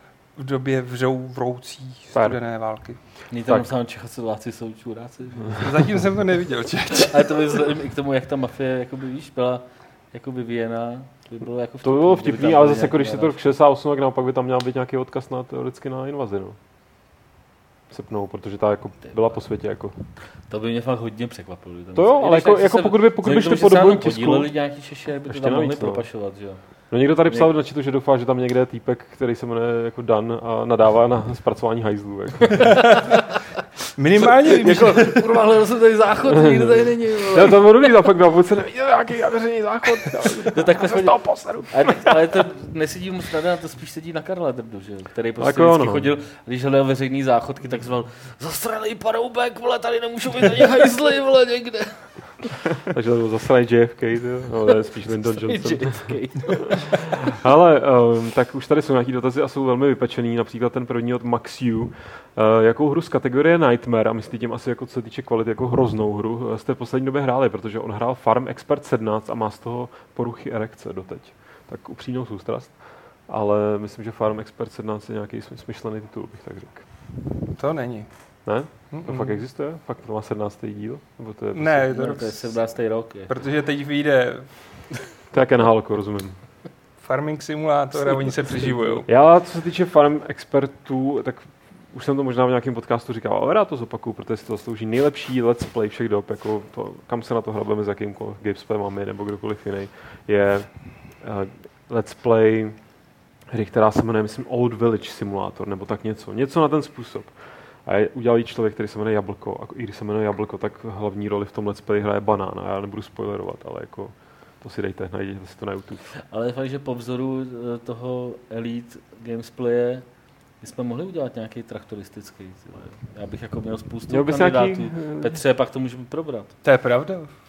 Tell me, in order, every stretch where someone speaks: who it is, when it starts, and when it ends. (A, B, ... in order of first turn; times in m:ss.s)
0:00.4-0:03.1 A
0:02.1-0:02.4 B
0:03.3-0:05.9 C
0:03.5-0:03.7 B
0:05.6-0:07.3 A
0:07.1-0:13.4 C
0:11.8-0:16.6 B
0:17.9-0:20.0 B
0:20.4-0:27.5 C
0:21.9-0:33.0 B
0:34.0-0:35.4 A
0:34.6-0:37.7 C
0:36.4-0:42.4 B
0:40.5-0:52.6 C
0:45.4-0:46.1 B
0:52.8-1:16.9 B
0:55.1-0:57.1 C
1:17.3-1:19.4 A
1:18.4-1:21.9 B
1:21.5-1:24.9 A
1:21.9-1:23.3 C
1:25.3-1:26.7 B
1:27.0-1:29.1 A
1:27.9-1:29.0 C
1:29.0-1:56.1 B
1:56.3-2:06.6 C
2:04.1-2:05.4 B
2:06.6-2:07.4 A